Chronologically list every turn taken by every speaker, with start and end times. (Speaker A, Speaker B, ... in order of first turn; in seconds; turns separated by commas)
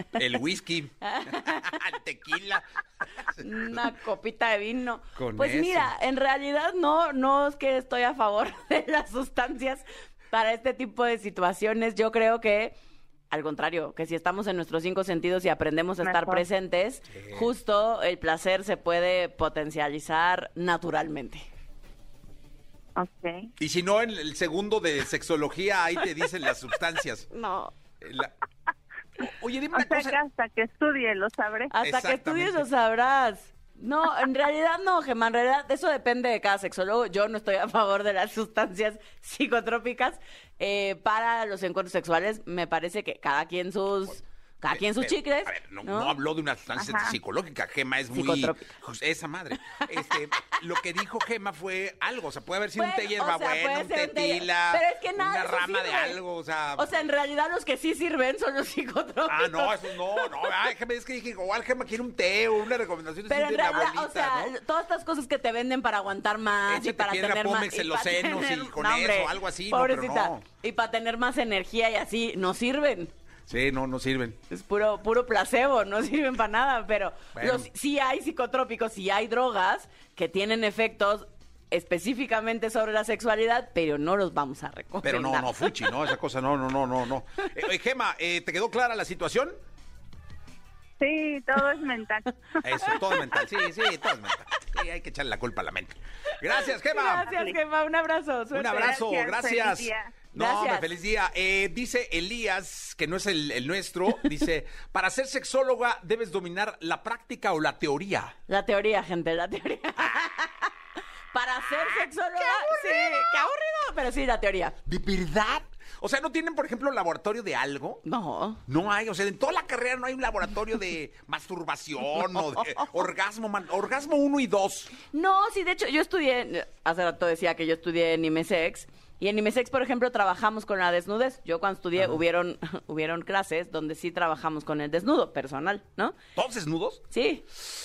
Speaker A: 0.2-3.9, Speaker B: 1.0-1.8, Speaker B: 3.4-12.7, Speaker A: 5.2-5.9, Speaker B: 13.3-21.5, Speaker C: 16.0-16.4, Speaker A: 17.1-17.5, Speaker C: 23.0-23.5, Speaker A: 23.6-27.3, Speaker B: 27.3-27.7, Speaker A: 28.0-28.3, Speaker A: 29.2-30.2, Speaker C: 29.7-31.7, Speaker B: 31.7-46.2, Speaker A: 31.8-32.7, Speaker A: 44.7-57.0, Speaker C: 46.8-47.1, Speaker B: 48.1-48.7, Speaker B: 52.8-56.2, Speaker B: 56.8-60.6, Speaker A: 59.3-64.6, Speaker B: 63.3-73.1, Speaker A: 66.7-70.4, Speaker A: 73.5-74.4, Speaker B: 74.5-86.0, Speaker A: 77.3-77.7, Speaker A: 85.0-89.5, Speaker C: 91.0-92.7, Speaker A: 92.6-97.3, Speaker B: 96.6-98.9, Speaker C: 97.2-97.6, Speaker A: 98.5-108.3, Speaker C: 98.8-100.1, Speaker B: 100.3-100.9, Speaker B: 108.5-110.7, Speaker B: 111.3-114.8, Speaker A: 111.7-113.3, Speaker A: 114.8-118.0, Speaker B: 118.0-118.6, Speaker A: 118.7-124.9, Speaker B: 125.1-136.2, Speaker A: 132.0-132.2, Speaker A: 136.3-137.0, Speaker B: 137.1-137.5